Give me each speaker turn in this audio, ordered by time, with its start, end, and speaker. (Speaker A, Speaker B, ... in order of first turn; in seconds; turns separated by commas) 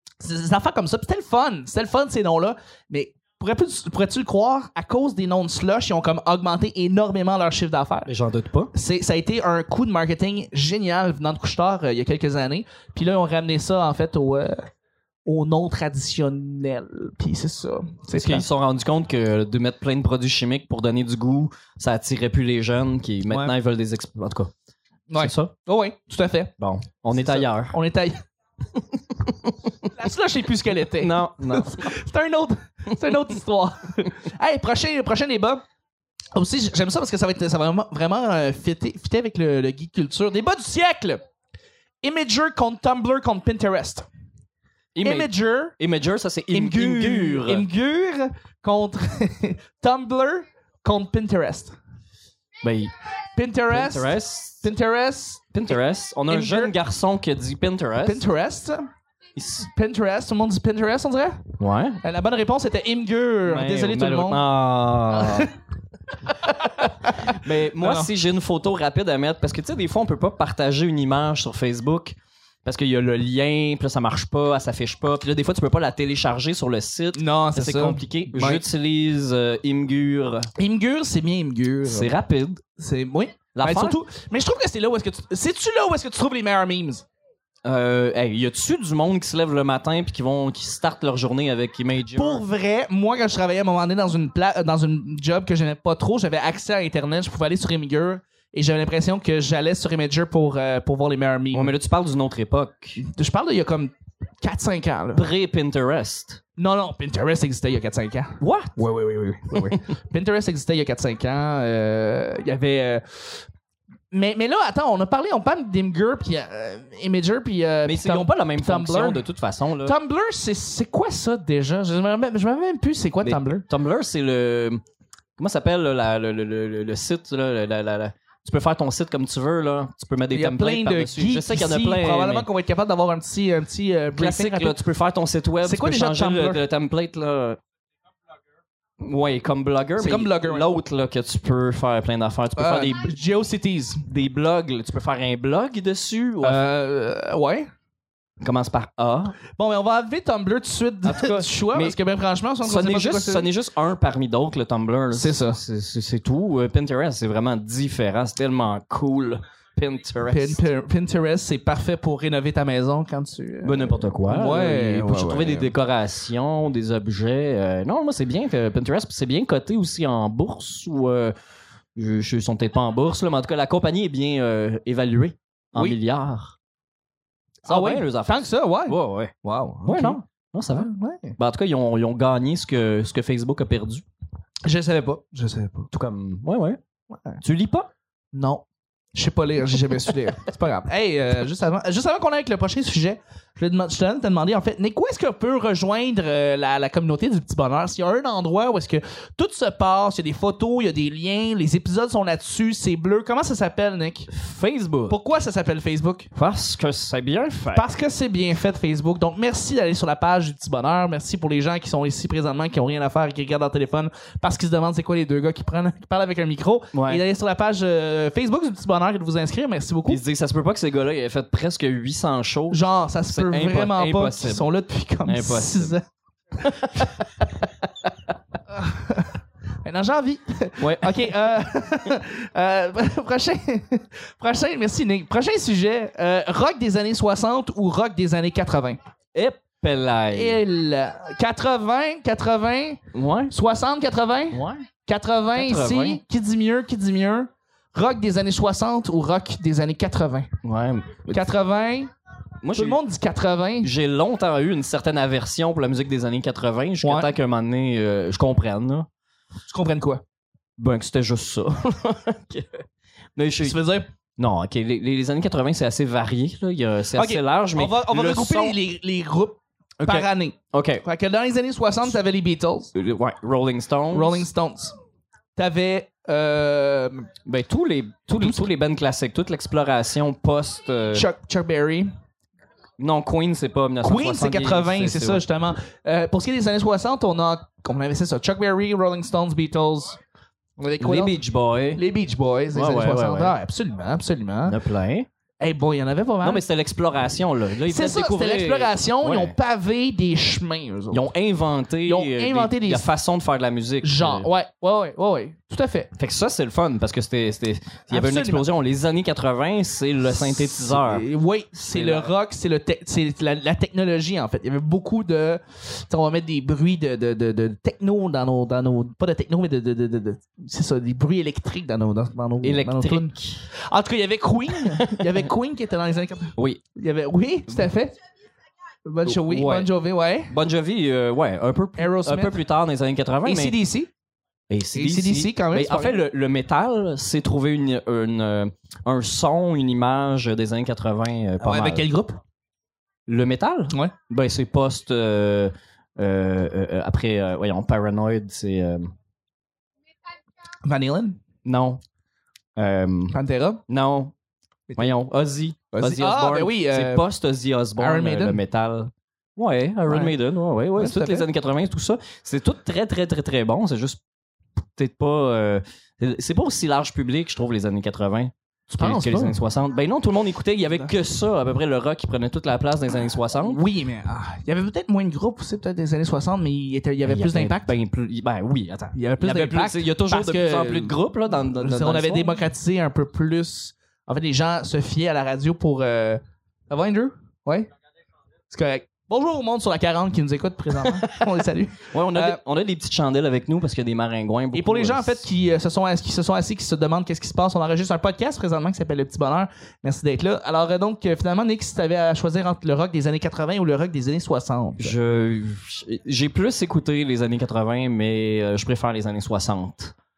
Speaker A: 0.2-8.1, Speaker B: 8.1-8.7, Speaker A: 8.7-14.7, Speaker A: 15.2-18.4, Speaker B: 18.1-24.5, Speaker A: 25.1-26.5, Speaker B: 25.1-25.5, Speaker B: 26.6-27.7, Speaker A: 27.1-28.2, Speaker B: 29.2-29.7, Speaker A: 29.9-35.6, Speaker B: 30.9-31.9, Speaker A: 36.3-41.2, Speaker A: 42.0-44.1, Speaker B: 44.9-47.6, Speaker A: 45.0-45.8, Speaker A: 46.5-51.8, Speaker B: 52.6-52.9, Speaker A: 53.3-55.7, Speaker B: 53.7-54.7, Speaker B: 55.5-58.2, Speaker A: 56.3-56.7, Speaker A: 58.0-58.9, Speaker B: 59.4-59.7, Speaker A: 59.6-61.5, Speaker B: 61.6-62.0, Speaker A: 62.0-64.4, Speaker B: 63.4-65.5, Speaker A: 65.1-65.5, Speaker A: 66.3-68.1, Speaker B: 67.2-80.5, Speaker A: 77.1-78.6, Speaker A: 80.6-82.1, Speaker B: 81.8-82.6, Speaker A: 82.8-87.0, Speaker B: 83.5-84.0, Speaker B: 87.6-92.4, Speaker A: 92.1-101.7, Speaker B: 101.5-103.0, Speaker A: 103.0-105.3, Speaker B: 105.1-106.4, Speaker A: 106.6-113.4, Speaker B: 108.4-108.8, Speaker A: 114.1-119.2, Speaker B: 117.8-120.0, Speaker A: 119.8-123.7, Speaker B: 123.2-124.8, Speaker B: 125.4-132.5, Speaker A: 130.3-134.8, Speaker B: 134.1-137.6, Speaker A: 135.6-136.6, Speaker B: 139.0-143.1, Speaker A: 140.0-140.7, Speaker A: 142.6-144.0, Speaker B: 144.1-146.6, Speaker A: 146.4-147.7, Speaker B: 148.4-149.4, Speaker A: 149.6-153.5, Speaker B: 151.0-152.0, Speaker B: 152.6-160.6, Speaker A: 155.1-155.6, Speaker A: 160.3-165.7, Speaker B: 163.6-171.3, Speaker B: 171.9-176.6, Speaker A: 177.6-180.2, Speaker B: 177.7-179.3, Speaker B: 179.8-184.0, Speaker A: 180.7-181.3, Speaker A: 184.6-185.9, Speaker B: 185.9-186.8, Speaker A: 187.1-187.4, Speaker B: 187.4-187.9, Speaker A: 188.3-188.6, Speaker A: 189.1-204.3, Speaker B: 204.3-205.2, Speaker A: 205.1-206.3, Speaker B: 206.3-207.8, Speaker A: 207.7-220.2, Speaker B: 216.9-217.2, Speaker B: 220.1-224.7, Speaker A: 222.7-226.0, Speaker B: 225.2-225.9, Speaker B: 226.6-227.5, Speaker A: 228.7-239.0, Speaker B: 230.8-231.3, Speaker B: 239.3-240.6, Speaker A: 240.3-250.5, Speaker B: 243.1-243.5, Speaker B: 244.5-244.8, Speaker B: 245.5-246.2, Speaker B: 250.6-251.4, Speaker A: 251.3-252.1, Speaker B: 252.6-253.0, Speaker A: 252.7-253.9, Speaker B: 253.8-259.1, Speaker A: 257.0-257.3, Speaker A: 259.7-260.2, Speaker B: 260.8-262.8, Speaker B: 263.4-263.8, Speaker A: 263.6-264.1, Speaker B: 264.4-268.8, Speaker A: 267.1-272.9, Speaker B: 270.0-271.0, Speaker B: 272.9-274.4, Speaker A: 274.1-275.0, Speaker A: 275.6-277.3, Speaker B: 277.4-281.3, Speaker A: 278.4-278.6, Speaker A: 281.1-282.1, Speaker B: 283.0-285.4, Speaker A: 284.0-290.2, Speaker A: 290.8-291.4, Speaker B: 291.0-292.0, Speaker A: 291.9-294.8, Speaker B: 292.7-293.6, Speaker B: 294.6-295.3, Speaker A: 295.6-296.6, Speaker B: 296.4-299.5, Speaker A: 297.9-301.2, Speaker B: 301.1-304.5, Speaker A: 302.0-303.1, Speaker A: 304.0-306.1, Speaker B: 306.1-311.2, Speaker A: 308.1-308.7, Speaker A: 310.4-328.1, Speaker B: 311.8-312.3, Speaker B: 322.6-323.6, Speaker B: 324.8-325.4, Speaker B: 326.6-326.8, Speaker A: 329.0-330.5, Speaker B: 329.2-329.9, Speaker B: 330.5-333.8, Speaker A: 332.0-332.6, Speaker A: 333.4-334.1, Speaker B: 334.7-342.1, Speaker A: 334.9-336.2, Speaker A: 341.6-342.4, Speaker B: 343.3-349.1, Speaker A: 350.8-351.4, Speaker B: 351.6-352.0, Speaker B: 352.8-353.4, Speaker A: 353.3-353.8, Speaker B: 353.9-354.3, Speaker B: 355.0-364.2, Speaker A: 355.9-357.2, Speaker A: 358.0-358.6, Speaker A: 360.1-360.3, Speaker A: 361.0-361.4, Speaker B: 364.9-373.8, Speaker A: 368.9-369.6, Speaker A: 373.6-377.9, Speaker B: 377.2-382.6, Speaker A: 379.1-387.9, Speaker A: 388.7-392.6, Speaker B: 392.1-395.4, Speaker A: 394.7-405.1, Speaker B: 405.0-410.1